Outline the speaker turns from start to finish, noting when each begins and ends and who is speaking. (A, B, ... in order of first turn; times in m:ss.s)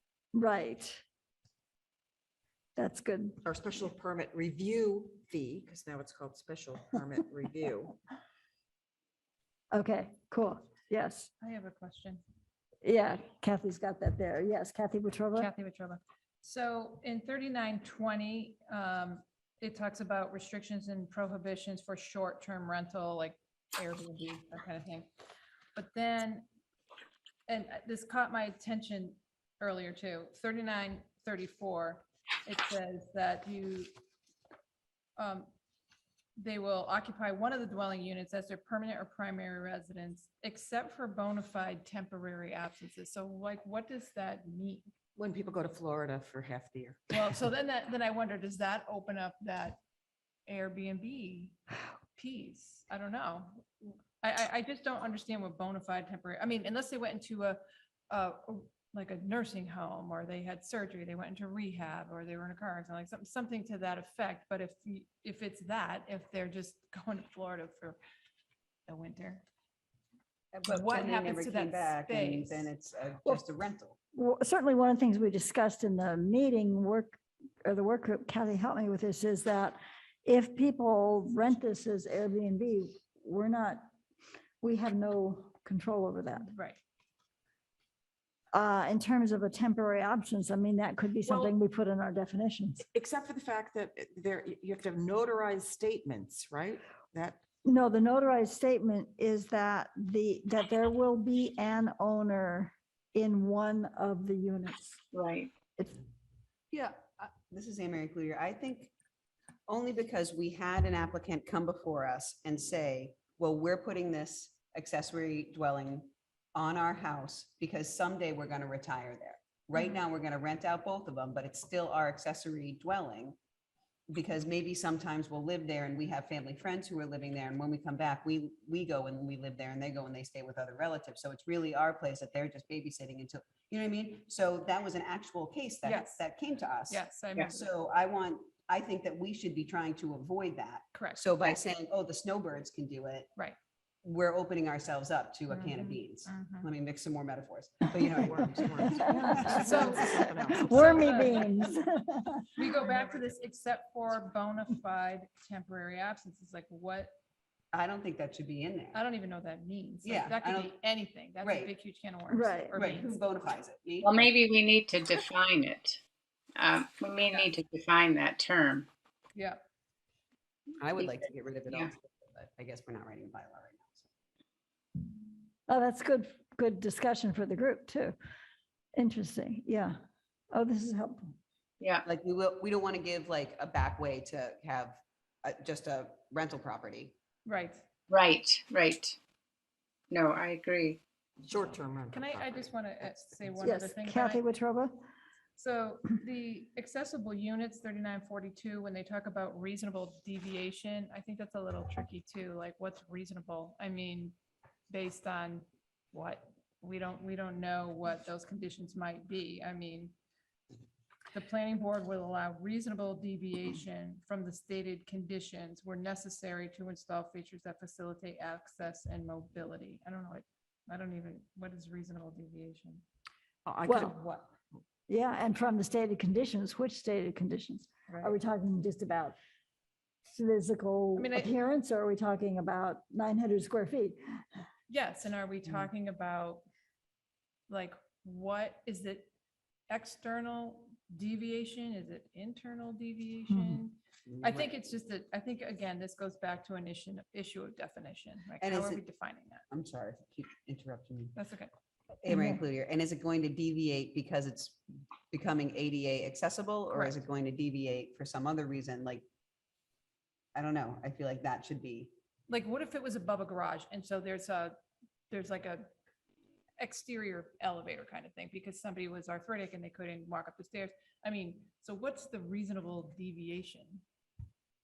0:00.3-0:01.0 A
0:02.8-0:03.4 A
0:03.4-0:08.0 B
0:09.7-0:11.3 A
0:11.4-0:12.2 C
0:12.8-0:15.5 A
0:15.4-0:25.1 C
0:25.8-0:26.4 C
0:27.5-0:33.9 C
0:35.2-0:35.5 C
0:36.4-0:44.9 C
0:45.2-0:47.2 B
0:47.1-0:49.8 C
0:50.5-0:51.6 C
0:52.2-0:57.6 C
0:58.1-1:08.0 C
1:08.9-1:09.4 C
1:10.5-1:14.0 D
1:10.7-1:12.7 C
1:14.1-1:23.8 A
1:24.6-1:26.5 A
1:26.5-1:26.8 C
1:28.5-1:32.8 A
1:32.8-1:37.4 B
1:37.6-1:45.0 A
1:45.1-1:45.5 E
1:46.7-1:48.9 D
1:49.7-2:03.4 D
2:04.1-2:23.3 D
2:15.8-2:16.2 C
2:16.9-2:17.6 C
2:20.9-2:21.2 C
2:24.0-2:31.2 D
2:25.5-2:26.7 C
2:28.2-2:31.3 B
2:29.0-2:32.5 A
2:29.6-2:30.2 C
2:30.7-2:31.5 C
2:32.6-2:37.1 C
2:37.7-2:39.0 D
2:38.9-2:43.2 C
2:40.0-2:40.7 D
2:41.4-2:41.7 D
2:42.3-2:42.8 A
2:42.8-2:44.3 D
2:44.0-2:46.0 E
2:46.6-2:48.9 E
2:49.3-2:49.6 C
2:50.8-2:54.1 D
2:55.7-2:58.1 A
2:59.0-3:00.0 A
3:00.5-3:01.3 A
3:02.0-3:07.1 D
3:07.4-3:07.8 C
3:08.1-3:09.2 E
3:10.1-3:11.0 E
3:11.4-3:12.7 B
3:12.1-3:14.4 C
3:13.6-3:15.0 A
3:15.6-3:24.4 C
3:24.9-3:30.1 C
3:31.3-3:43.0 C
3:43.6-3:44.5 B
3:43.8-3:44.2 A
3:45.1-3:49.4 A
3:48.1-3:48.3 C
3:50.3-3:54.4 A
3:51.2-3:51.5 C
3:54.9-3:56.6 C
3:57.7-3:59.3 C
3:59.9-4:09.6 C
4:03.5-4:03.8 A
4:08.6-4:09.0 D
4:09.7-4:11.4 D
4:11.3-4:11.7 C
4:12.2-4:19.2 D
4:12.3-4:12.6 A
4:20.6-4:22.1 D
4:22.5-4:24.8 C
4:25.3-4:25.9 C
4:26.8-4:34.0 C